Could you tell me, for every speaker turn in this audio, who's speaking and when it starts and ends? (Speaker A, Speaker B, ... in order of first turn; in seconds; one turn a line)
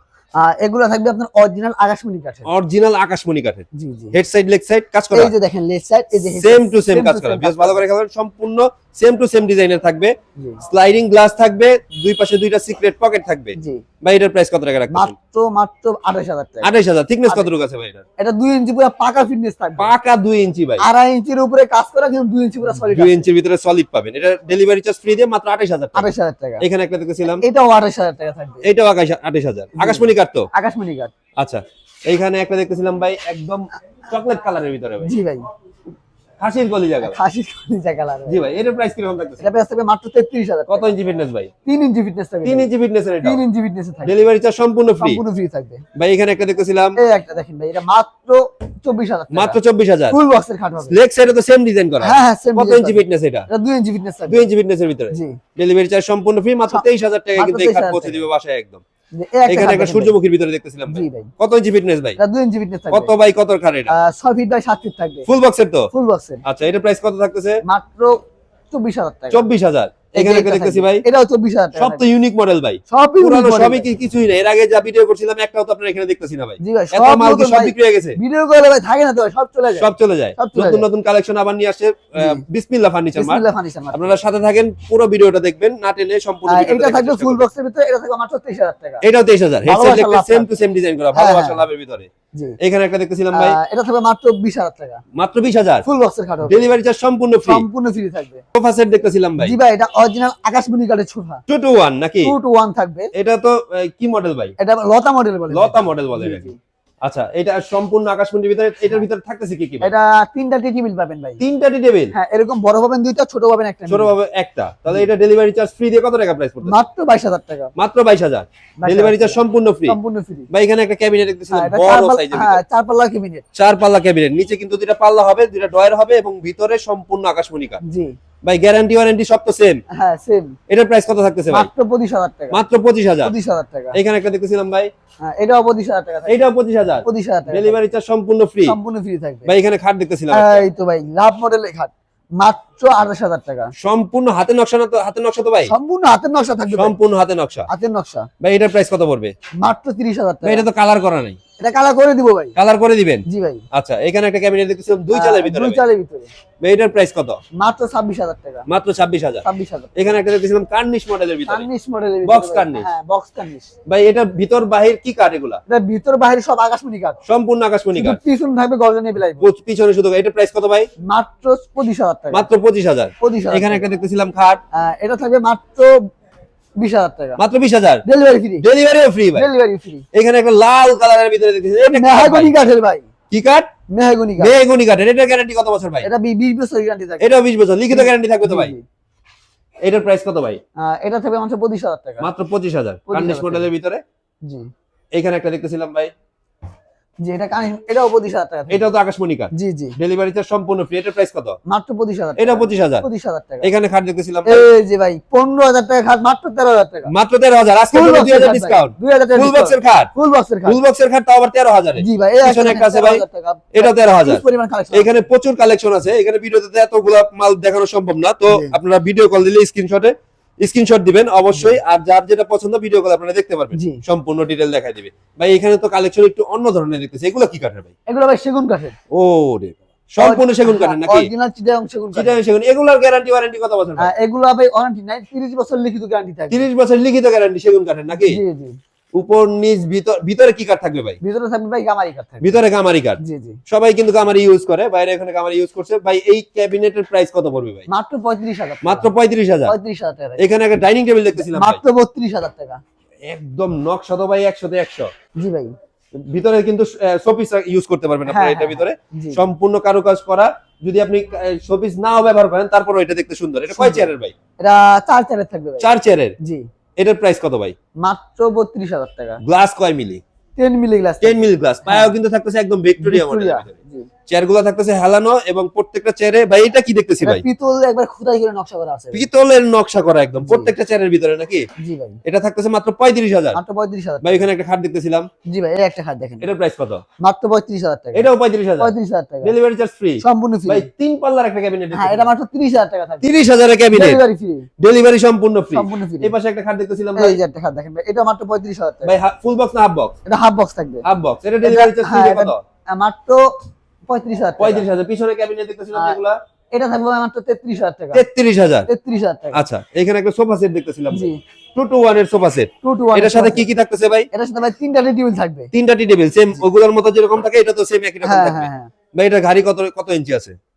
Speaker A: 0.4-2.5
Speaker B: 2.5-5.3
Speaker A: 3.7-4.2
Speaker A: 5.1-7.8
Speaker B: 6.2-15.1
Speaker A: 13.6-13.8
Speaker A: 14.9-16.7
Speaker B: 16.6-18.0
Speaker A: 18.2-19.9
Speaker B: 19.8-20.8
Speaker A: 20.8-23.3
Speaker B: 22.7-27.4
Speaker A: 25.9-26.6
Speaker A: 27.4-28.6
Speaker B: 28.6-30.5
Speaker A: 29.8-31.1
Speaker B: 31.4-35.1
Speaker A: 35.0-35.5
Speaker B: 36.4-37.1
Speaker A: 37.0-38.5
Speaker B: 38.3-39.5
Speaker A: 39.4-40.9
Speaker B: 40.7-41.5
Speaker A: 41.6-42.7
Speaker B: 42.4-43.4
Speaker A: 43.2-44.1
Speaker B: 44.0-45.2
Speaker A: 45.0-45.8
Speaker B: 46.0-47.0
Speaker A: 47.0-49.6
Speaker B: 49.3-50.2
Speaker A: 50.1-51.0
Speaker B: 50.9-53.5
Speaker A: 52.0-54.4
Speaker B: 54.3-58.8
Speaker A: 55.1-55.4
Speaker A: 57.4-58.2
Speaker A: 59.1-60.1
Speaker B: 59.5-62.2
Speaker A: 60.9-61.3
Speaker A: 62.2-63.1
Speaker B: 62.9-63.9
Speaker A: 63.9-65.2
Speaker B: 65.3-65.9
Speaker A: 65.9-66.4
Speaker B: 66.4-67.6
Speaker A: 67.6-69.5
Speaker B: 69.3-71.0
Speaker A: 70.1-72.0
Speaker B: 71.8-78.2
Speaker A: 72.9-73.9
Speaker A: 76.6-80.8
Speaker B: 79.8-87.5
Speaker A: 82.2-82.4
Speaker A: 83.2-84.2
Speaker A: 86.5-89.0
Speaker B: 89.0-92.1
Speaker A: 89.7-90.5
Speaker A: 91.1-91.6
Speaker B: 92.6-93.6
Speaker A: 93.3-95.0
Speaker B: 95.2-95.8
Speaker A: 95.8-96.7
Speaker B: 96.4-97.6
Speaker A: 97.4-98.4
Speaker B: 98.5-99.5
Speaker A: 99.4-101.4
Speaker B: 101.5-102.3
Speaker A: 102.2-103.1
Speaker B: 103.1-104.5
Speaker A: 104.6-106.6
Speaker B: 105.5-106.5
Speaker B: 107.0-109.9
Speaker A: 109.8-111.4
Speaker B: 111.4-112.1
Speaker A: 112.1-114.1
Speaker B: 113.9-116.7
Speaker A: 116.7-117.7
Speaker B: 117.8-120.0
Speaker A: 118.8-120.5
Speaker B: 120.5-122.6
Speaker A: 121.5-123.4
Speaker B: 123.5-127.8
Speaker A: 127.8-128.1
Speaker B: 128.4-129.8
Speaker A: 129.9-130.6
Speaker B: 130.7-131.7
Speaker A: 131.5-132.6
Speaker B: 132.5-133.3
Speaker A: 133.2-134.0
Speaker B: 133.9-134.9
Speaker A: 135.2-136.5
Speaker B: 136.3-138.8
Speaker A: 137.0-137.8
Speaker A: 138.7-139.5
Speaker B: 139.4-140.7
Speaker A: 140.3-143.7
Speaker B: 143.8-145.7
Speaker A: 145.7-146.9
Speaker B: 146.7-147.7
Speaker A: 147.7-148.3
Speaker B: 148.4-149.3
Speaker A: 149.6-150.7
Speaker B: 150.4-151.4
Speaker A: 151.6-152.5
Speaker B: 152.6-155.8
Speaker A: 153.3-153.6
Speaker A: 155.1-156.3
Speaker B: 156.6-157.4
Speaker A: 157.6-158.7
Speaker B: 158.7-159.4
Speaker A: 159.4-160.0
Speaker B: 160.0-161.7
Speaker A: 161.5-163.7
Speaker B: 162.2-162.9
Speaker B: 163.9-165.6
Speaker A: 165.7-167.2
Speaker B: 167.2-168.2
Speaker A: 167.9-169.5
Speaker B: 169.4-170.9
Speaker A: 171.0-172.5
Speaker B: 172.3-174.6
Speaker A: 173.2-173.8
Speaker A: 174.7-176.0
Speaker A: 176.8-177.4
Speaker B: 177.4-178.0
Speaker A: 178.0-178.6
Speaker B: 178.6-179.5
Speaker A: 179.3-180.0
Speaker B: 180.1-182.5
Speaker A: 181.9-183.1
Speaker B: 183.3-183.7
Speaker A: 183.9-184.5
Speaker B: 184.4-186.1
Speaker A: 186.0-188.8
Speaker B: 187.2-188.7
Speaker B: 189.8-190.6
Speaker A: 190.8-192.3
Speaker B: 192.2-194.0
Speaker A: 193.1-193.7
Speaker A: 194.4-194.7
Speaker B: 195.1-196.1
Speaker A: 197.2-198.9
Speaker B: 198.7-201.6
Speaker A: 199.5-199.9
Speaker A: 201.7-203.7
Speaker B: 202.4-203.0
Speaker B: 203.6-204.7
Speaker A: 204.4-207.1
Speaker B: 207.1-210.1
Speaker A: 207.9-210.8
Speaker B: 210.7-213.2
Speaker A: 212.0-215.1
Speaker B: 213.7-227.9
Speaker A: 218.5-218.8
Speaker A: 223.7-224.0
Speaker A: 228.1-228.9
Speaker B: 229.1-231.3
Speaker A: 230.2-232.3
Speaker B: 232.1-234.1
Speaker A: 234.0-236.6
Speaker B: 236.5-238.4
Speaker A: 238.2-238.8
Speaker B: 239.1-241.2
Speaker A: 241.2-242.5
Speaker B: 242.4-247.9
Speaker A: 243.2-243.6
Speaker A: 247.9-249.1
Speaker B: 248.8-249.7
Speaker A: 249.7-250.4
Speaker B: 250.4-251.8
Speaker A: 251.3-252.8
Speaker B: 253.3-255.1
Speaker A: 255.4-255.7
Speaker B: 256.1-264.3
Speaker A: 258.3-259.4
Speaker A: 263.7-265.9
Speaker B: 265.8-266.3
Speaker B: 267.0-267.7
Speaker A: 268.0-269.4
Speaker B: 269.4-270.2
Speaker A: 270.6-272.1
Speaker B: 271.2-273.7
Speaker A: 273.0-274.1
Speaker B: 274.3-277.4
Speaker A: 277.2-279.3
Speaker B: 279.1-281.6
Speaker A: 280.4-280.7
Speaker A: 281.8-282.2
Speaker B: 282.2-283.6
Speaker A: 283.5-284.4
Speaker B: 284.2-285.3
Speaker A: 285.5-286.5
Speaker B: 286.4-287.0
Speaker A: 287.2-289.5
Speaker B: 288.1-288.9
Speaker B: 289.4-292.3
Speaker A: 290.2-290.9
Speaker A: 291.9-293.3
Speaker B: 293.2-294.2
Speaker A: 293.9-294.7
Speaker B: 294.8-297.4
Speaker A: 295.7-296.3
Speaker A: 297.1-299.1
Speaker B: 299.0-300.1
Speaker A: 300.3-301.0
Speaker B: 301.0-302.6
Speaker A: 301.6-303.4
Speaker A: 304.1-304.9
Speaker B: 304.6-306.4
Speaker A: 305.9-306.2
Speaker A: 306.7-308.2
Speaker B: 308.1-308.9
Speaker A: 308.9-309.6
Speaker B: 309.5-314.3
Speaker A: 311.1-311.4
Speaker A: 312.8-313.7
Speaker A: 314.3-315.7
Speaker B: 315.7-320.6
Speaker A: 318.2-318.9